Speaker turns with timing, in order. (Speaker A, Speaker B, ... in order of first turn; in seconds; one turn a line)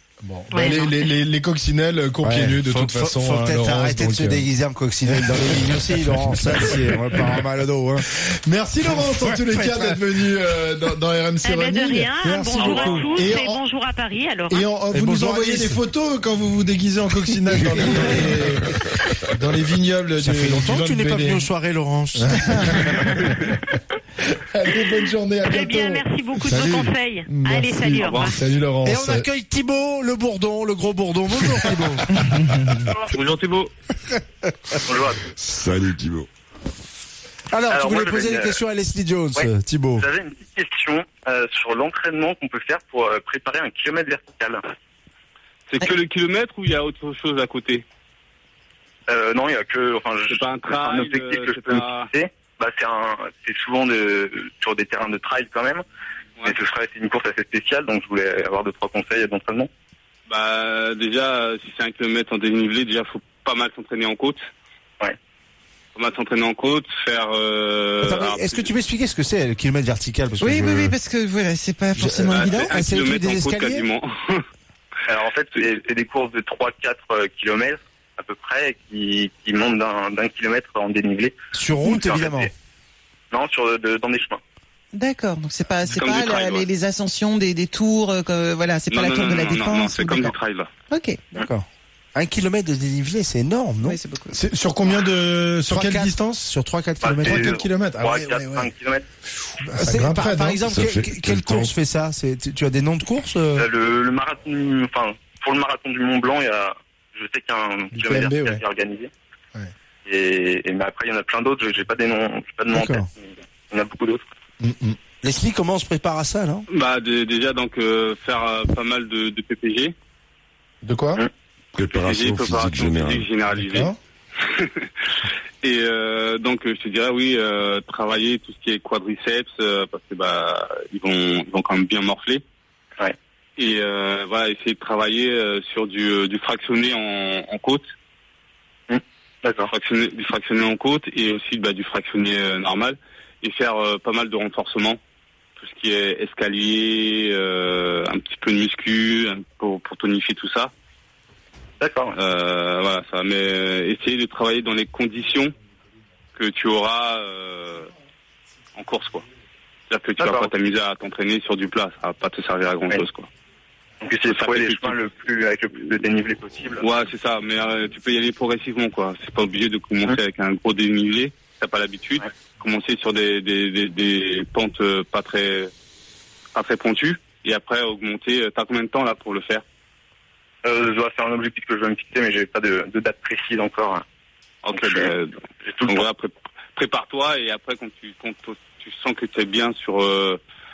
Speaker A: 0.2-4.5
Speaker B: 0.5-0.9
Speaker C: 2.2-8.1
Speaker A: 5.0-5.7
Speaker A: 8.4-12.1
Speaker C: 8.8-10.0
Speaker B: 11.4-14.7
Speaker C: 12.2-13.0
Speaker D: 12.6-13.3
Speaker A: 13.0-13.6
Speaker A: 14.5-18.7
Speaker C: 14.9-15.8
Speaker A: 19.3-21.5
Speaker C: 20.2-23.0
Speaker A: 22.1-23.3
Speaker A: 24.5-29.3
Speaker B: 25.4-28.4
Speaker D: 28.0-28.3
Speaker C: 28.8-32.1
Speaker D: 33.0-33.7
Speaker E: 34.9-35.2
Speaker F: 35.4-36.3
Speaker C: 37.5-40.1
Speaker E: 37.7-38.6
Speaker E: 39.3-44.6
Speaker D: 45.7-47.8
Speaker E: 49.1-55.8
Speaker D: 50.3-52.1
Speaker E: 56.4-59.7
Speaker D: 60.3-64.4
Speaker D: 65.9-68.7
Speaker C: 68.0-71.0
Speaker G: 70.4-72.7
Speaker C: 72.0-73.8
Speaker D: 72.3-74.4
Speaker E: 75.1-82.5
Speaker C: 81.5-82.5
Speaker E: 83.3-84.4
Speaker G: 84.9-90.3
Speaker D: 85.9-86.7
Speaker D: 88.9-90.7
Speaker G: 90.9-91.3
Speaker C: 91.3-94.0
Speaker G: 93.8-94.4
Speaker A: 94.3-96.5
Speaker C: 95.7-97.5
Speaker E: 97.0-99.0
Speaker A: 97.2-98.7
Speaker A: 99.6-100.6
Speaker C: 99.8-103.7
Speaker F: 100.6-101.7
Speaker E: 103.5-109.1
Speaker A: 107.9-108.6
Speaker E: 110.0-114.2
Speaker C: 112.7-113.1
Speaker A: 114.6-115.0
Speaker C: 115.2-116.6
Speaker D: 116.7-119.9
Speaker A: 120.8-121.2
Speaker F: 121.7-123.3
Speaker D: 121.9-123.9
Speaker A: 123.7-124.0
Speaker D: 124.5-124.8
Speaker D: 125.6-132.4
Speaker D: 133.6-137.8
Speaker E: 138.9-139.7
Speaker D: 139.7-145.0
Speaker D: 145.6-150.7
Speaker E: 151.8-152.1
Speaker D: 152.1-155.5
Speaker D: 156.3-157.9
Speaker D: 158.8-159.2
Speaker D: 159.9-163.3
Speaker E: 160.2-160.5
Speaker E: 164.0-166.8
Speaker D: 164.3-165.0
Speaker D: 166.8-175.7
Speaker D: 176.5-179.6
Speaker E: 180.6-184.0
Speaker D: 184.6-185.3
Speaker E: 184.7-185.1
Speaker E: 185.6-186.0
Speaker D: 185.9-190.4